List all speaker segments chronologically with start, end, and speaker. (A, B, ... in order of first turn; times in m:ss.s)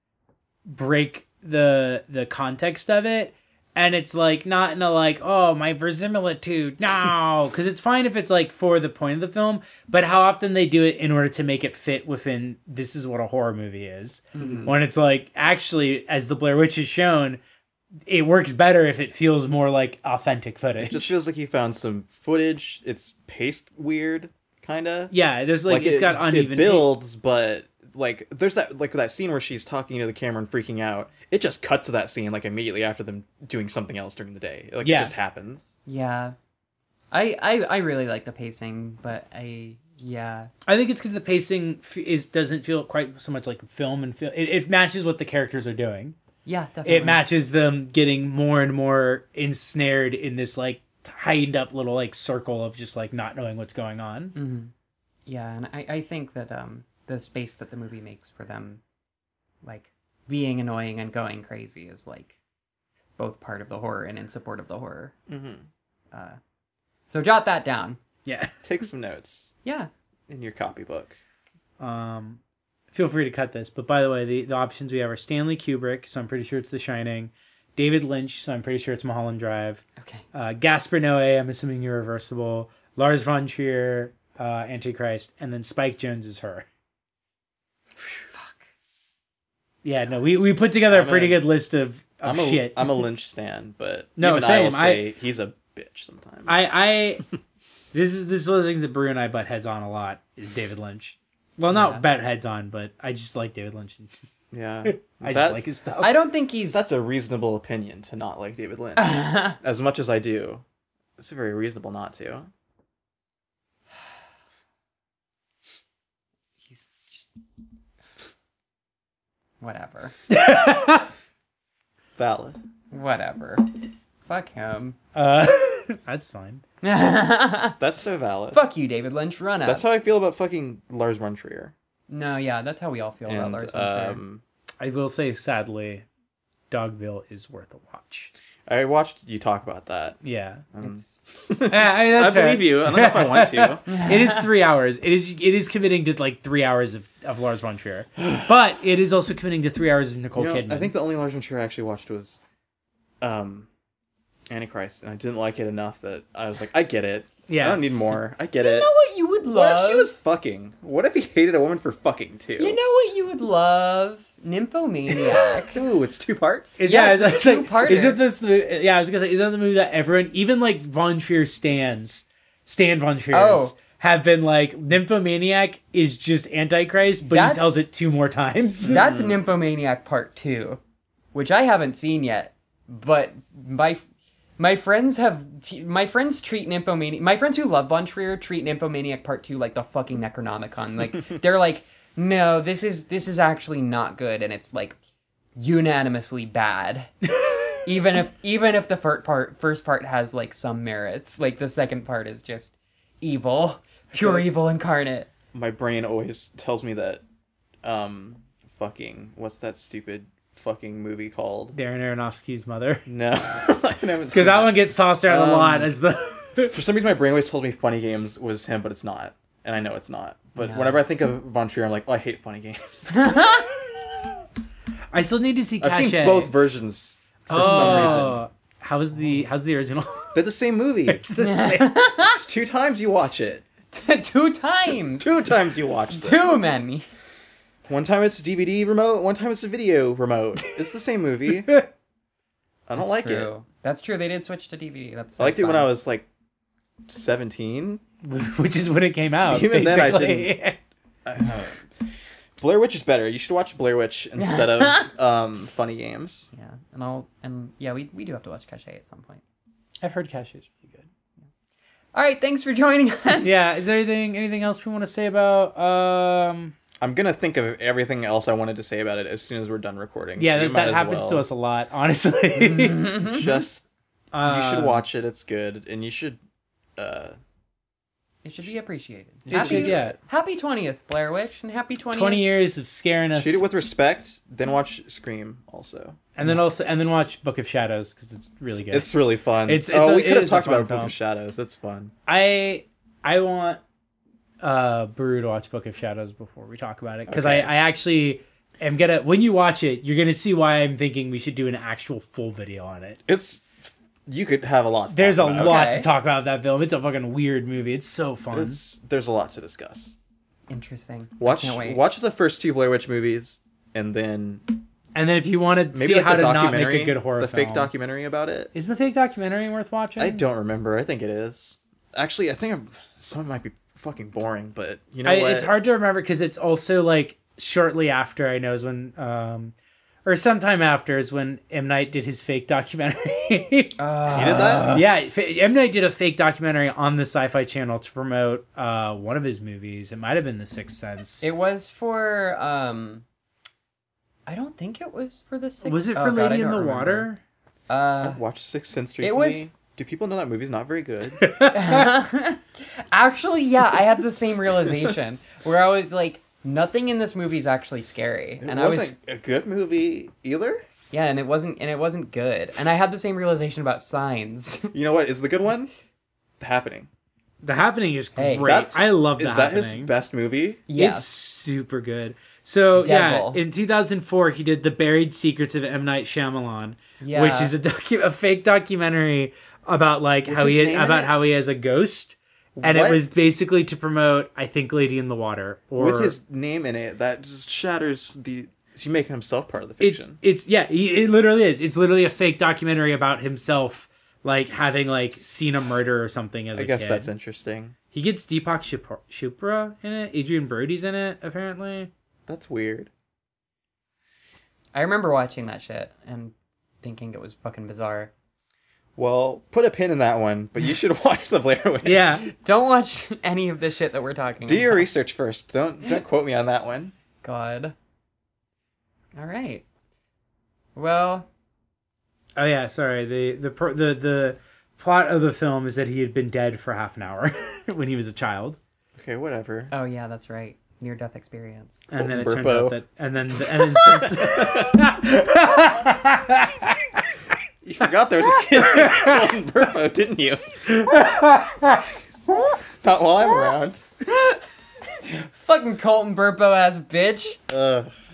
0:00.7-0:17.4 A
0:14.3-0:14.6 B
0:14.3-0:14.7 C
0:18.1-0:21.1 A
0:20.8-0:25.1 C
0:25.1-0:26.9 A
0:25.6-0:35.7 C
0:34.8-0:35.1 A
0:35.8-0:36.4 B
0:37.1-0:40.5 B
0:40.6-0:46.2 A
0:46.4-0:47.2 B
0:46.8-0:54.3 A
0:54.3-0:54.7 B
0:55.2-0:58.8 B
0:59.6-1:02.4 B
1:03.2-1:05.1 B
1:05.3-1:05.6 C
1:06.1-1:06.4 B
1:07.1-1:08.0 B
1:08.2-1:08.5 A
1:08.6-1:09.5 C
1:09.6-1:09.9 B
1:10.3-1:11.1 C
1:11.8-1:12.4 A
1:12.9-1:19.8 A
1:20.0-1:20.2 B
1:20.3-1:26.6 A
1:28.1-1:28.6 B
1:29.8-1:32.9 A
1:30.9-1:31.4 C
1:32.2-1:36.6 C
1:34.2-1:35.1 A
1:36.4-1:37.2 A
1:37.9-1:44.2 A
1:41.7-1:42.0 B
1:44.5-1:45.6 C
1:44.8-1:46.1 A
1:46.0-1:46.8 B
1:46.7-1:50.6 C
1:49.0-1:49.5 B
1:51.2-1:52.5 C
1:56.6-1:57.3 B
1:59.6-2:00.1 B
2:00.3-2:01.1 A
2:02.2-2:02.6 C
2:02.9-2:05.0 B
2:05.1-2:06.6 A
2:06.8-2:07.8 B
2:07.8-2:08.6 C
2:08.5-2:09.8 B
2:09.6-2:11.7 C
2:12.1-2:14.2 B
2:13.3-2:14.4 C
2:14.8-2:16.0 A
2:16.7-2:18.3 A
2:18.7-2:20.2 C
2:20.2-2:20.6 A
2:20.7-2:23.8 C
2:20.8-2:21.2 B
2:21.7-2:30.9 A
2:23.9-2:24.5 B
2:30.3-2:32.4 C
2:33.2-2:33.7 C
2:34.5-2:38.9 C
2:37.5-2:37.9 A
2:38.6-2:40.1 B
2:39.5-2:42.8 C
2:42.6-2:45.8 B
2:45.2-2:46.8 C
2:46.8-2:59.0 A
2:46.8-2:48.2 B
2:53.3-2:53.8 B
2:57.2-2:57.8 B
2:58.8-3:00.8 B
2:58.8-2:59.4 C
3:01.3-3:04.0 B
3:04.6-3:15.0 B
3:15.6-3:17.1 B
3:17.8-3:25.3 B
3:24.1-3:24.5 C
3:25.5-3:27.2 C
3:27.8-3:31.8 C
3:31.7-3:33.0 A
3:33.1-3:36.0 C
3:34.3-3:36.7 A
3:36.6-3:43.5 C
3:40.6-3:41.0 B
3:43.1-3:43.7 B
3:45.1-3:46.5 A
3:45.8-3:48.4 C
3:47.5-3:50.4 A
3:47.6-3:48.4 B
3:50.3-3:51.2 C
3:51.0-3:52.0 A
3:51.4-3:52.4 B
3:52.2-3:53.6 C
3:53.9-3:55.4 B
3:55.2-3:56.6 C
3:56.1-3:57.1 B
3:57.9-4:01.8 C
4:02.9-4:03.5 C
4:03.0-4:05.9 B
4:05.4-4:06.3 C
4:07.1-4:08.0 C
4:08.2-4:10.8 A
4:09.4-4:10.5 C
4:11.2-4:11.9 C
4:12.6-4:16.5 C
4:14.4-4:15.1 B
4:16.5-4:19.4 B
4:20.0-4:21.1 A
4:22.1-4:23.5 B
4:23.4-4:26.7 A
4:27.0-4:31.4 C
4:30.4-4:33.1 A
4:32.6-4:33.6 B
4:33.2-4:33.8 C
4:34.3-4:35.0 A
4:34.4-4:36.4 C
4:37.0-4:37.4 C
4:38.4-4:42.4 B
4:39.4-4:40.1 C
4:39.5-4:40.2 A
4:42.1-4:43.7 A
4:43.3-4:46.6 C
4:46.4-4:49.1 A
4:48.9-4:52.1 C
4:49.6-4:51.1 A
4:52.3-4:53.8 A
4:54.6-5:03.2 A
4:57.3-4:57.7 C
5:03.2-5:06.0 C
5:05.1-5:08.8 A
5:05.5-5:06.1 B
5:08.5-5:10.2 C
5:10.7-5:12.0 B
5:11.4-5:14.6 C
5:15.1-5:17.9 A
5:15.9-5:18.7 C
5:18.7-5:20.4 A
5:20.2-5:25.7 C
5:25.2-5:29.7 A
5:30.2-5:41.4 A
5:34.0-5:35.0 B
5:34.3-5:35.0 C
5:41.4-5:43.2 B
5:44.4-5:47.3 B
5:45.8-5:47.4 A
5:47.9-5:48.4 B
5:48.2-5:51.4 C
5:49.2-5:49.7 B
5:51.4-5:52.1 A
5:51.7-5:59.1 B
5:58.6-6:00.8 C
6:01.1-6:04.9 B
6:04.9-6:05.9 C
6:06.6-6:07.1 C
6:07.6-6:10.1 A
6:08.4-6:08.7 B
6:08.6-6:10.8 C
6:10.9-6:11.3 B
6:10.9-6:26.3 A
6:12.9-6:13.6 B
6:17.2-6:17.7 B
6:20.4-6:21.3 C
6:22.8-6:23.2 C
6:26.0-6:30.4 C
6:30.0-6:37.3 A
6:36.7-6:37.9 C
6:38.1-6:42.1 A
6:42.5-6:43.1 C
6:44.9-6:48.3 B
6:49.2-6:52.5 C
6:52.0-6:52.5 A
6:52.6-6:55.1 B
6:54.6-6:57.1 C
6:57.4-6:57.9 B
6:59.4-6:59.8 B
7:00.9-7:01.5 B
7:02.6-7:08.8 A
7:09.2-7:09.9 C
7:09.9-7:12.0 B
7:12.1-7:17.2 A
7:12.1-7:13.0 C
7:13.9-7:15.1 C
7:17.8-7:21.1 C
7:18.6-7:19.4 A
7:20.9-7:22.0 A
7:23.0-7:24.1 C
7:25.3-7:27.6 B
7:27.7-7:28.1 C